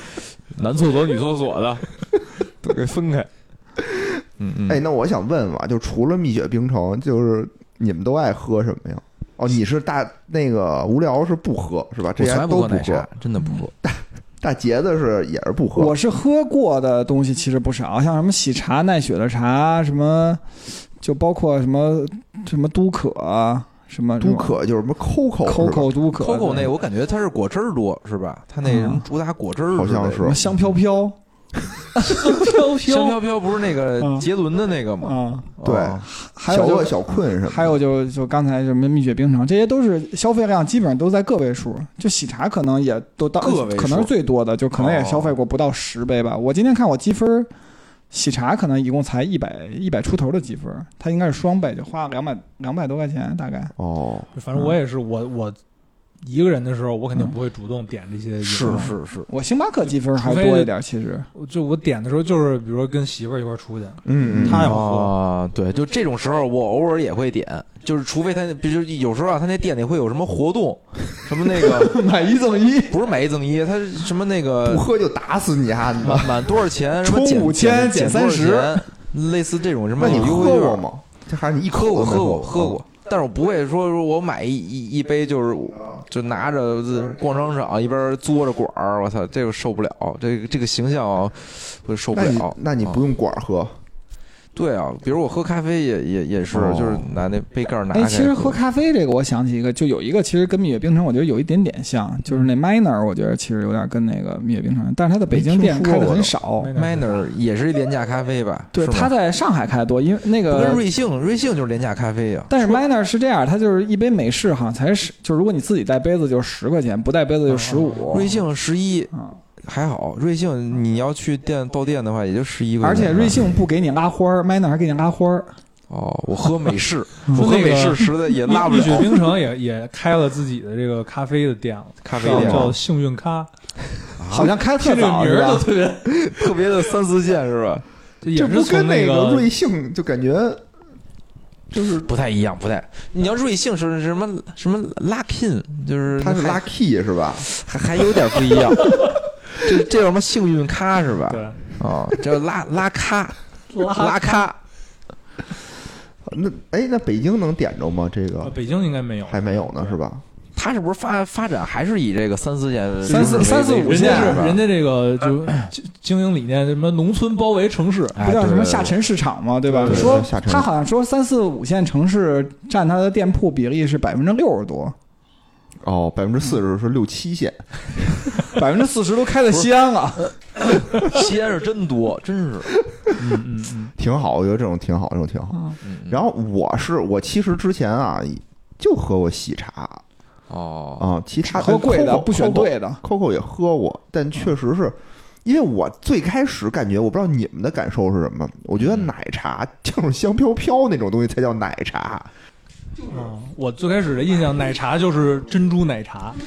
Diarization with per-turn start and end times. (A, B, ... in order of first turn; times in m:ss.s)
0:00.5-0:01.9 A
0:02.6-0:03.3 A
0:04.4-0:04.8 A
0:04.7-0:13.1 B
0:12.2-0:13.7 A
0:13.8-0:15.9 B
0:15.7-0:20.4 C
0:21.0-0:24.6 C
0:24.2-0:25.9 B
0:25.4-0:26.7 C
0:26.2-0:30.5 A
0:28.6-0:29.0 C
0:29.7-0:30.4 B
0:30.2-0:31.2 C
0:32.1-0:33.2 D
0:32.8-0:36.0 A
0:34.0-0:34.3 C
0:35.0-0:35.5 C
0:35.6-0:37.8 B
0:36.0-0:47.5 C
0:43.4-0:44.1 A
0:44.7-0:45.3 A
0:48.1-0:53.7 C
0:53.8-0:54.3 B
0:54.3-0:55.6 D
0:56.2-0:58.9 D
0:58.4-0:59.3 A
0:59.3-1:01.3 C
1:00.1-1:00.7 D
1:01.3-1:05.1 D
1:04.0-1:04.7 B
1:04.2-1:04.6 C
1:04.4-1:12.0 A
1:11.5-1:13.0 C
1:12.9-1:14.8 A
1:14.6-1:16.5 B
1:16.0-1:20.8 A
1:17.0-1:18.9 C
1:20.0-1:22.8 B
1:20.0-1:20.3 C
1:21.7-1:33.0 A
1:32.1-1:33.8 B
1:34.5-1:38.6 A
1:36.5-1:37.1 B
1:37.9-1:46.7 C
1:45.3-1:46.3 B
1:46.6-1:47.3 D
1:46.7-1:49.1 A
1:48.7-1:50.8 C
1:50.5-1:52.8 A
1:52.5-1:58.3 C
1:57.5-1:58.4 D
1:58.1-2:03.4 A
2:02.8-2:05.5 C
2:05.9-2:09.2 A
2:07.3-2:13.5 D
2:12.0-2:12.7 A
2:12.1-2:12.7 B
2:12.3-2:12.7 C
2:14.2-2:14.5 A
2:14.3-2:15.7 C
2:14.7-2:16.1 D
2:16.0-2:17.8 A
2:18.2-2:19.5 D
2:18.3-2:20.6 B
2:21.7-2:22.1 B
2:22.0-2:26.6 A
2:26.2-2:27.5 B
2:27.4-2:34.6 A
2:31.3-2:31.6 D
2:33.7-2:34.5 D
2:36.2-2:38.6 B
2:38.4-2:39.9 D
2:39.3-2:40.2 B
2:40.6-2:44.6 A
2:43.0-2:44.5 C
2:43.0-2:48.2 D
2:48.2-2:49.0 A
2:48.2-2:54.9 C
2:49.8-2:50.2 A
2:49.8-2:50.7 B
2:55.8-2:58.4 B
2:58.5-3:00.2 C
2:59.5-3:02.7 A
3:03.2-3:03.9 D
3:04.0-3:10.0 B
3:05.8-3:06.2 A
3:10.5-3:11.1 A
3:11.0-3:22.3 B
3:11.4-3:13.0 C
3:18.7-3:19.1 A
3:23.1-3:26.4 D